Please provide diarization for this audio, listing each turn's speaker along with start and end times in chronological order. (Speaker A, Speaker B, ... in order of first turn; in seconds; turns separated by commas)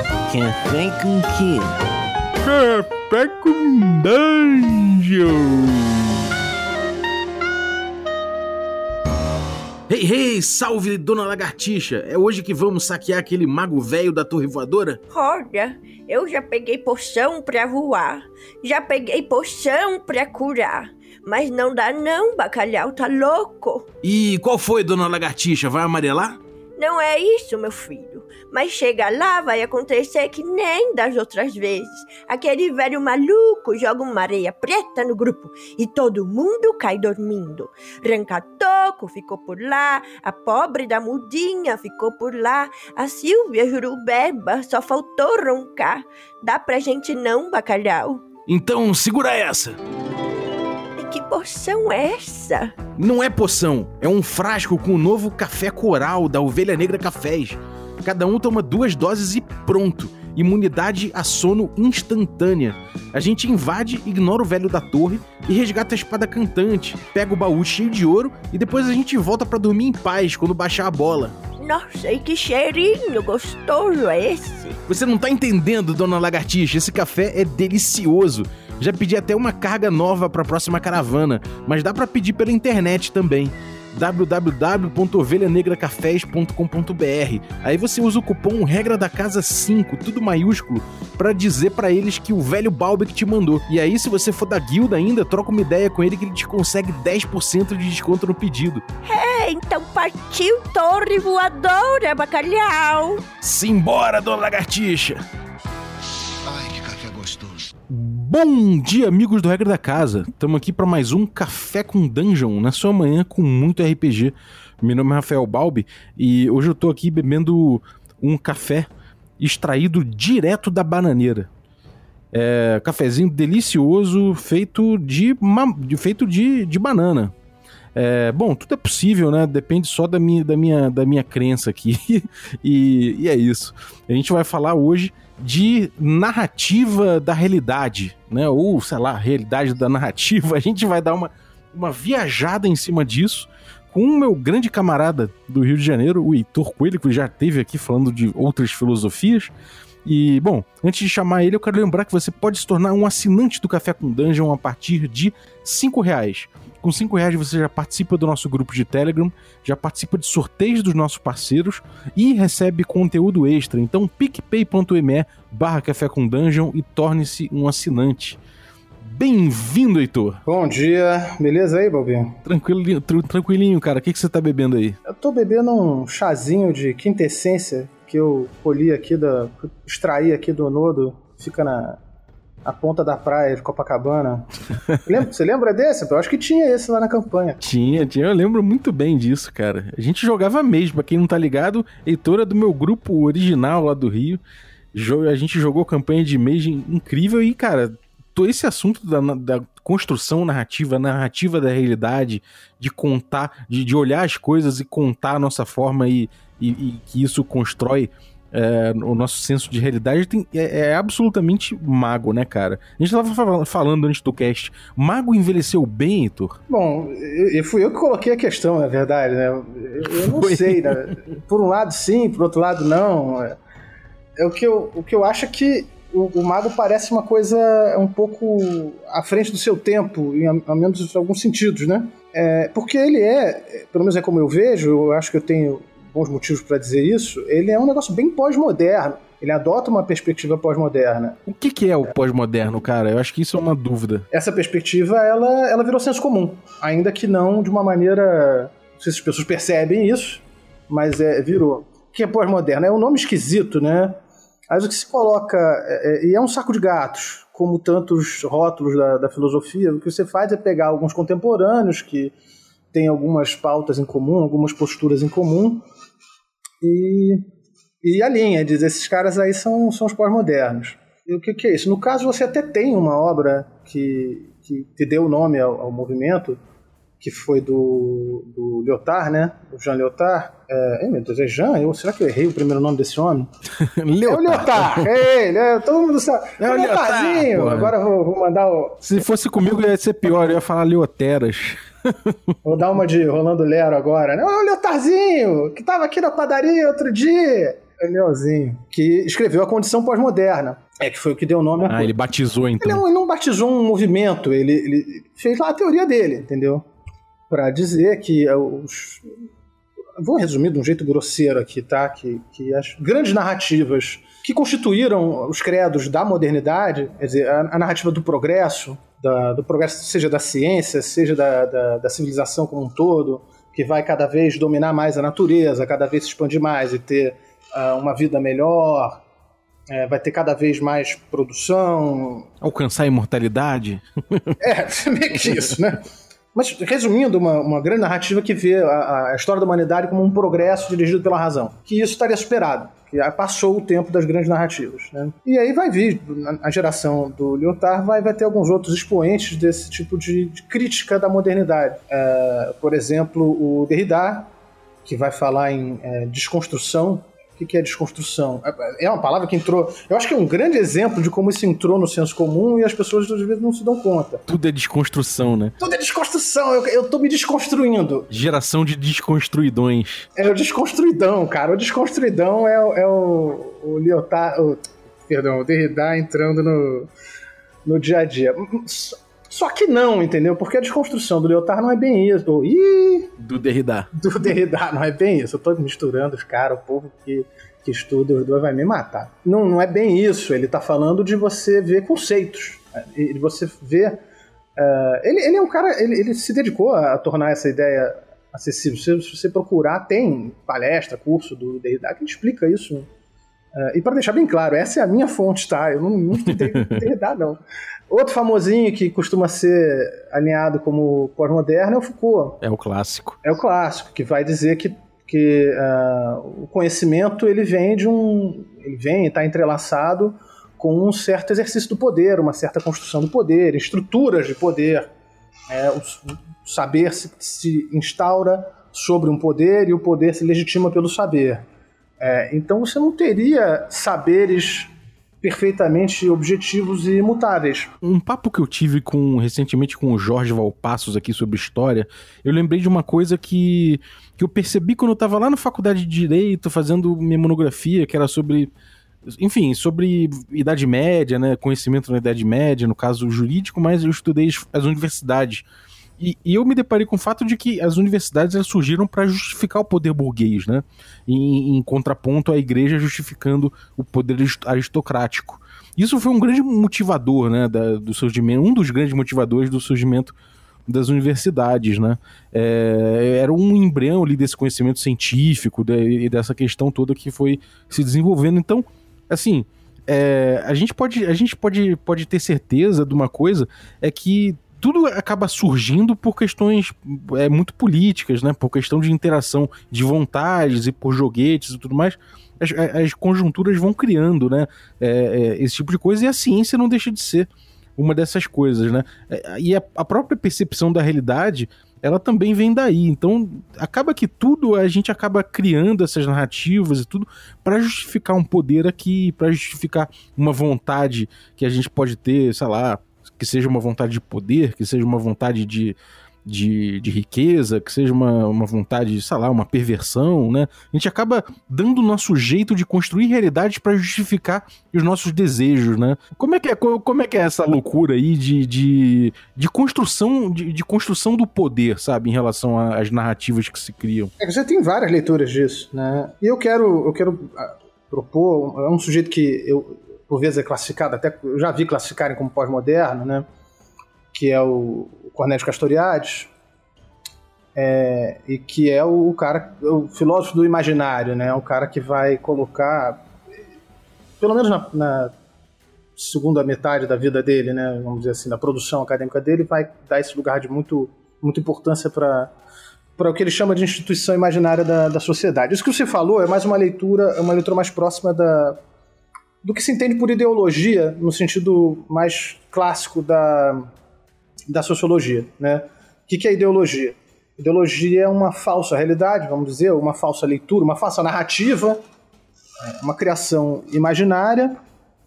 Speaker A: 0.3-1.8, Speaker A: 2.4-6.2, Speaker A: 9.9-15.0, Speaker B: 15.1-23.9, Speaker A: 24.0-26.4, Speaker B: 26.8-48.2, Speaker A: 48.5-49.8, Speaker B: 51.0-52.7, Speaker A: 53.0-71.4, Speaker B: 71.6-74.8, Speaker A: 74.9-98.8, Speaker B: 99.0-103.3, Speaker A: 103.4-105.2, Speaker A: 106.5-121.5, Speaker A: 122.3-127.3, Speaker A: 127.9-149.5, Speaker A: 150.0-168.4, Speaker A: 169.0-170.4, Speaker C: 170.4-172.4, Speaker A: 172.4-175.0, Speaker C: 175.0-182.0, Speaker C: 182.6-184.5, Speaker C: 185.0-187.6, Speaker A: 187.6-194.4, Speaker A: 194.9-216.6, Speaker C: 216.7-223.6, Speaker A: 220.0-221.1, Speaker C: 224.4-241.4, Speaker A: 241.4-244.2, Speaker C: 244.3-254.2, Speaker C: 254.7-262.3, Speaker C: 262.9-265.8, Speaker C: 266.8-267.4, Speaker C: 268.0-276.6, Speaker C: 277.2-283.5, Speaker A: 283.7-285.1, Speaker C: 284.2-289.0, Speaker A: 286.6-287.9, Speaker A: 289.0-292.5, Speaker C: 292.6-302.1, Speaker A: 301.9-303.0, Speaker C: 302.8-306.8, Speaker C: 307.5-309.3, Speaker C: 310.2-329.2, Speaker C: 329.9-332.5, Speaker A: 332.6-334.6, Speaker C: 334.6-354.5, Speaker C: 355.0-364.4, Speaker A: 364.5-365.7, Speaker C: 365.8-368.3, Speaker A: 368.3-370.3, Speaker C: 370.3-377.1, Speaker C: 377.9-383.3, Speaker A: 383.4-384.1, Speaker C: 384.1-394.2, Speaker C: 394.8-403.1, Speaker C: 403.7-412.6, Speaker A: 406.4-407.0, Speaker A: 412.6-413.4, Speaker C: 413.4-425.1, Speaker C: 425.7-431.6, Speaker C: 432.2-434.9, Speaker C: 435.4-437.9, Speaker A: 438.0-448.7, Speaker A: 449.2-455.7, Speaker A: 456.2-470.3, Speaker A: 470.9-534.3, Speaker C: 534.4-543.4, Speaker C: 544.3-546.5, Speaker C: 547.7-553.2, Speaker C: 554.4-555.3, Speaker C: 556.2-562.5, Speaker C: 563.2-568.8, Speaker C: 569.6-573.9, Speaker C: 574.7-582.0, Speaker C: 582.8-584.8